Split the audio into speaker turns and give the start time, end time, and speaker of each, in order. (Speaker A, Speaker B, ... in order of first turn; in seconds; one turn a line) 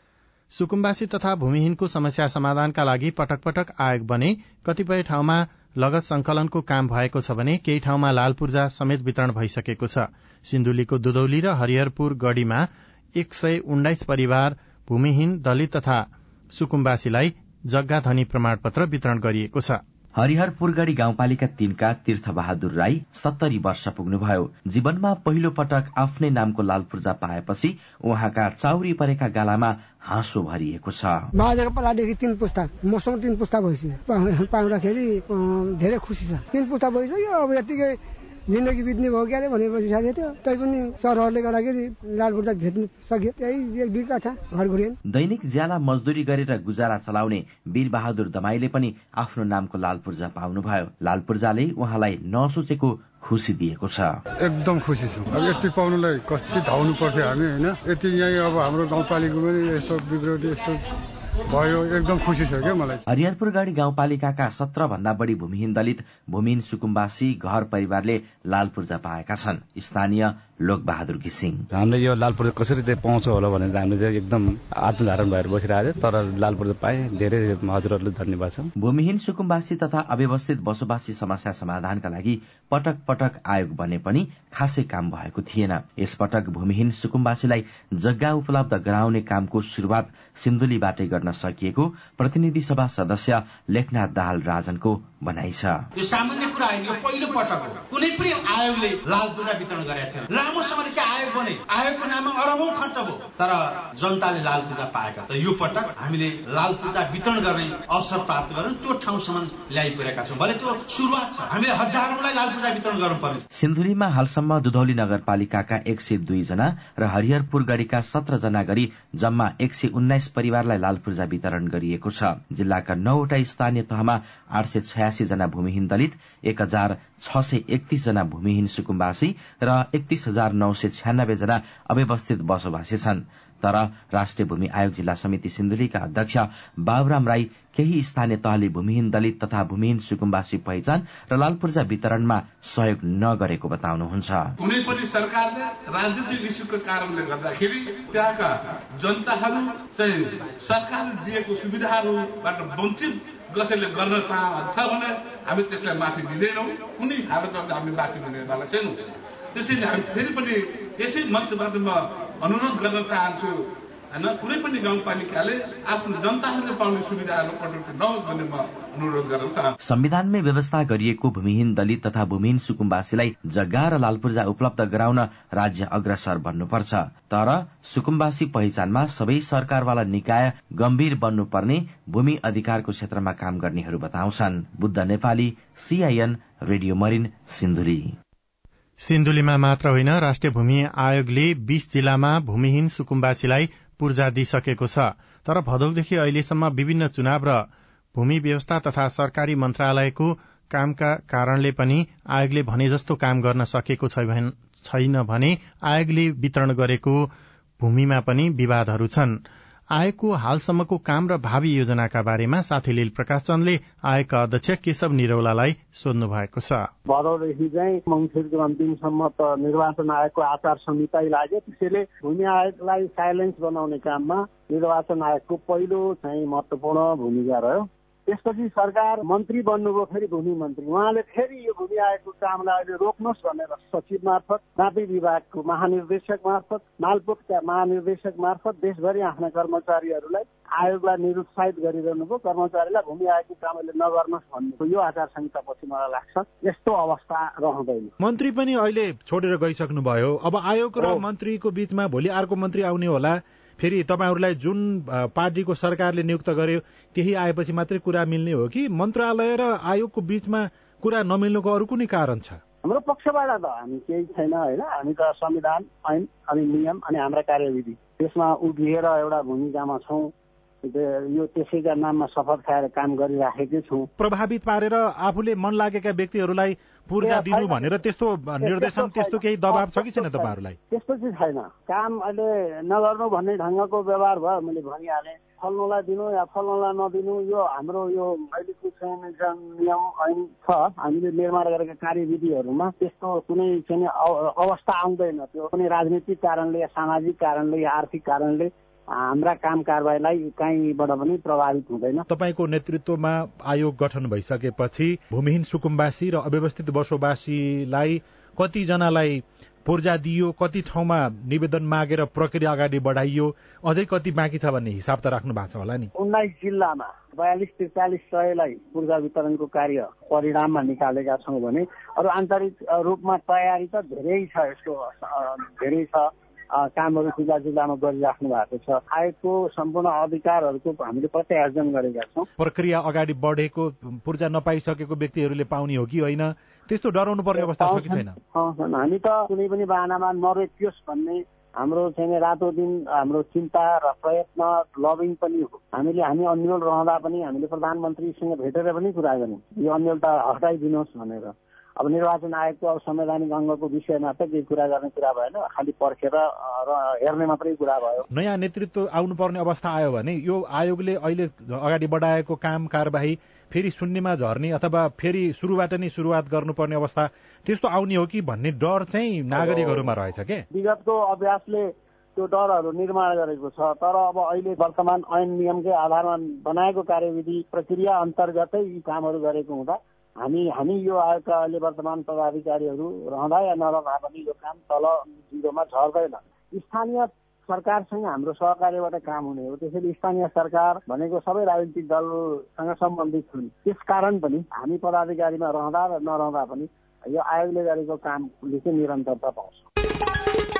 Speaker A: 0.5-19.8
Speaker B: 20.2-31.3
Speaker C: 31.4-38.0
Speaker C: 38.5-44.9
Speaker B: 45.1-54.2
Speaker D: 54.4-60.8
Speaker D: 61.5-63.0
Speaker B: 63.1-71.7
Speaker E: 71.7-78.7
Speaker B: 78.8-95.8
Speaker F: 96.0-113.4
Speaker B: 113.5-144.5
Speaker G: 144.6-159.0
Speaker G: 159.5-169.7
Speaker B: 169.8-188.1
Speaker A: 189.0-197.6
Speaker A: 198.1-209.4
Speaker A: 209.9-216.9
Speaker H: 217.1-248.1
Speaker I: 248.2-262.6
Speaker H: 262.8-270.3
Speaker H: 270.8-274.1
Speaker I: 274.2-280.8
Speaker H: 277.2-278.0
Speaker H: 278.6-302.2
Speaker I: 302.3-316.1
Speaker H: 316.1-332.5
Speaker I: 332.6-338.4
Speaker H: 337.6-358.2
Speaker I: 358.3-370.6
Speaker H: 369.5-370.1
Speaker H: 370.7-399.9